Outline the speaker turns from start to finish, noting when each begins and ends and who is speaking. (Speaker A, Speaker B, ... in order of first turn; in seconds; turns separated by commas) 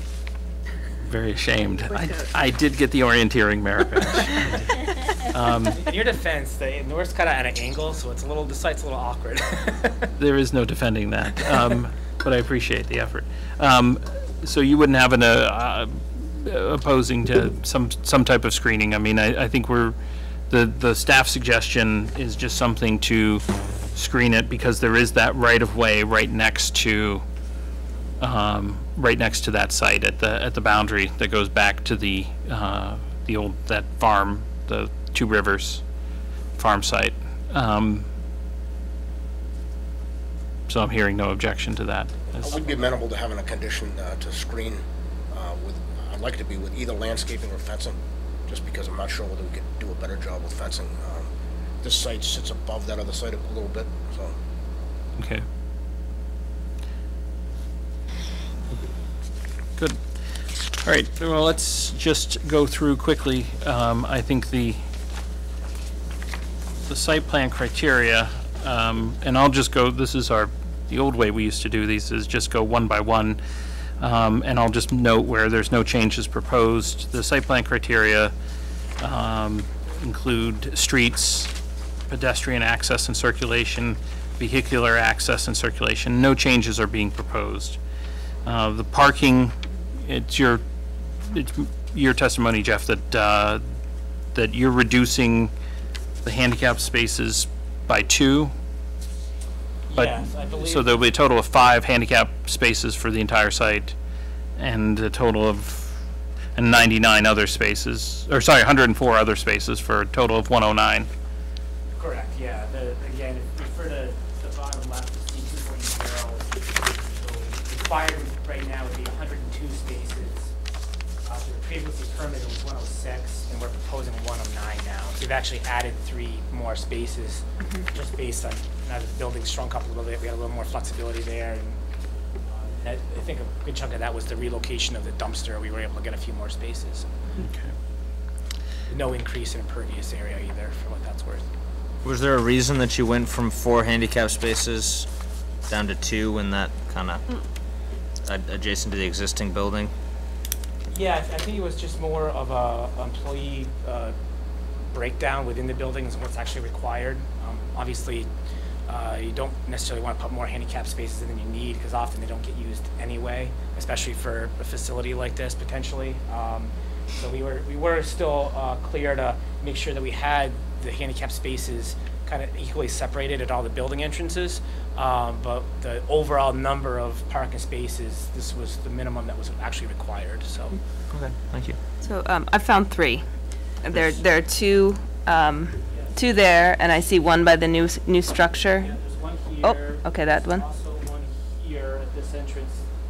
Speaker A: 1.0-5.9, Speaker B: 1.9-2.3, Speaker C: 5.7-10.1, Speaker A: 10.2-19.9, Speaker A: 20.5-27.2, Speaker A: 28.2-35.8, Speaker A: 36.6-38.1, Speaker A: 40.7-42.9, Speaker D: 42.4-51.3, Speaker D: 51.8-54.4, Speaker A: 55.2-55.4, Speaker A: 59.8-60.2, Speaker A: 60.7-64.8, Speaker A: 66.9-73.4, Speaker A: 74.0-78.3, Speaker A: 79.0-81.5, Speaker A: 82.1-87.8, Speaker A: 88.4-90.6, Speaker A: 91.3-93.6, Speaker A: 94.3-95.5, Speaker A: 96.2-98.5, Speaker C: 99.9-101.0, Speaker A: 100.0-103.9, Speaker A: 104.6-106.0, Speaker A: 106.5-111.1, Speaker C: 112.0-120.5, Speaker C: 121.2-131.8, Speaker C: 132.5-137.2, Speaker A: 137.4-137.7, Speaker C: 138.9-141.5, Speaker E: 142.0-145.1, Speaker E: 145.7-147.2, Speaker E: 148.2-149.9, Speaker C: 150.9-154.1, Speaker C: 154.9-158.3, Speaker C: 158.9-180.8, Speaker B: 182.0-183.3, Speaker B: 183.8-189.0, Speaker C: 188.8-192.8, Speaker B: 189.6-190.6